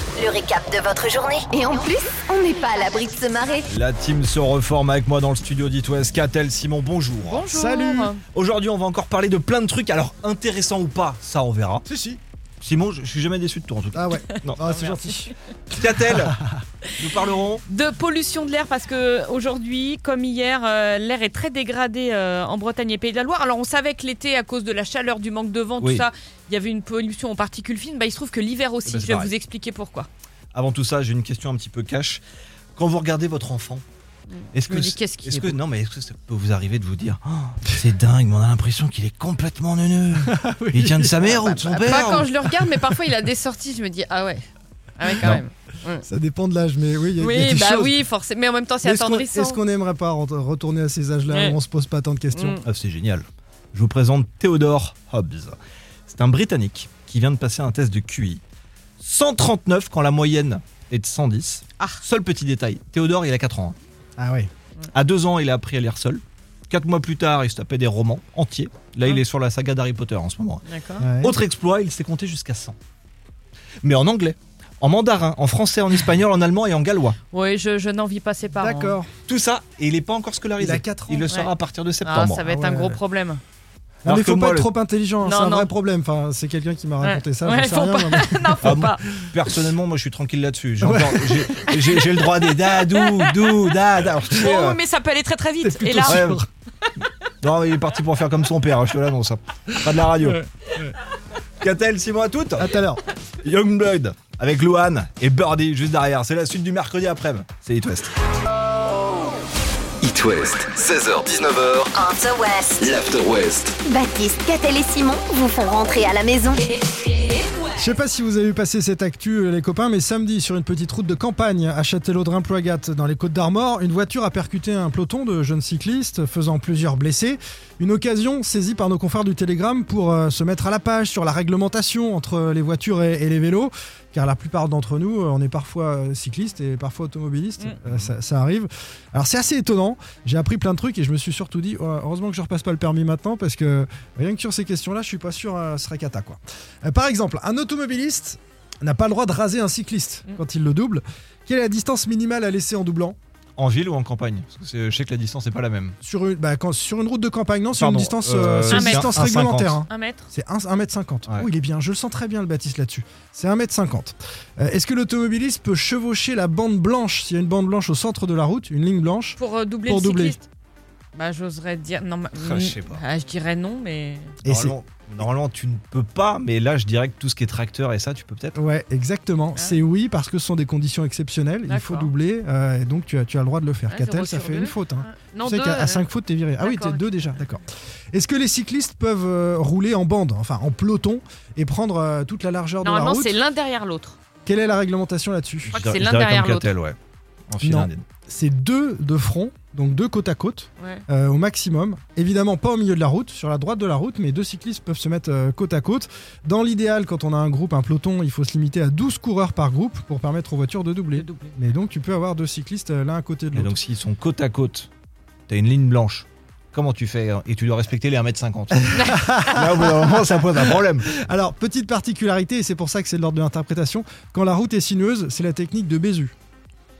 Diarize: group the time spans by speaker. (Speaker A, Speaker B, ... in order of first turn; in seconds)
Speaker A: 0.2-3.7, 112.1-112.8, 113.8-116.6
Speaker B: 3.7-7.5, 8.3-11.8, 12.6-14.7, 15.7-16.4, 17.0-17.6, 25.8-26.1, 28.9-29.3, 30.5-32.2, 32.8-33.8, 34.5-42.4, 52.6-55.6, 56.1-58.4, 59.0-63.8, 64.9-70.6, 71.2-72.8, 73.8-77.2, 79.3-82.4, 84.0-84.7, 88.6-94.8, 96.0-96.4, 97.4-100.4, 101.6-102.7, 103.4-108.1, 137.8-138.1, 153.6-156.0, 157.8-159.8, 172.4-173.0, 174.4-178.6, 195.6-197.0, 197.5-198.0, 213.5-214.9, 215.5-221.1
Speaker C: 7.2-8.2, 17.7-30.1, 34.3-35.6, 41.5-44.5, 45.0-46.0, 47.2-49.6, 51.3-51.6, 52.3-52.6, 70.6-71.0, 77.3-79.0, 82.0-83.4, 85.2-85.7, 87.0-89.0, 91.7-92.2, 92.8-93.5, 94.3-96.3, 158.7-159.2, 159.9-160.3, 169.4-170.5, 171.1-174.3, 181.7-182.1, 183.9-187.1, 192.8-194.2, 195.7-196.7, 200.8-201.0, 211.2-211.6, 218.9-219.5
Speaker D: 7.5-8.1, 11.9-12.2, 13.9-15.3, 40.3-42.0, 46.0-48.0, 48.8-52.6, 64.2-64.5, 71.0-71.4, 78.5-79.1, 80.6-81.2, 82.4-83.0, 84.0-88.6, 90.8-91.5, 95.6-96.5, 102.6-103.0, 117.7-153.2, 156.0-170.4, 174.4-174.8, 178.5-193.3, 194.4-195.8, 197.6-213.7, 218.9-226.3
Speaker E: 110.0-113.8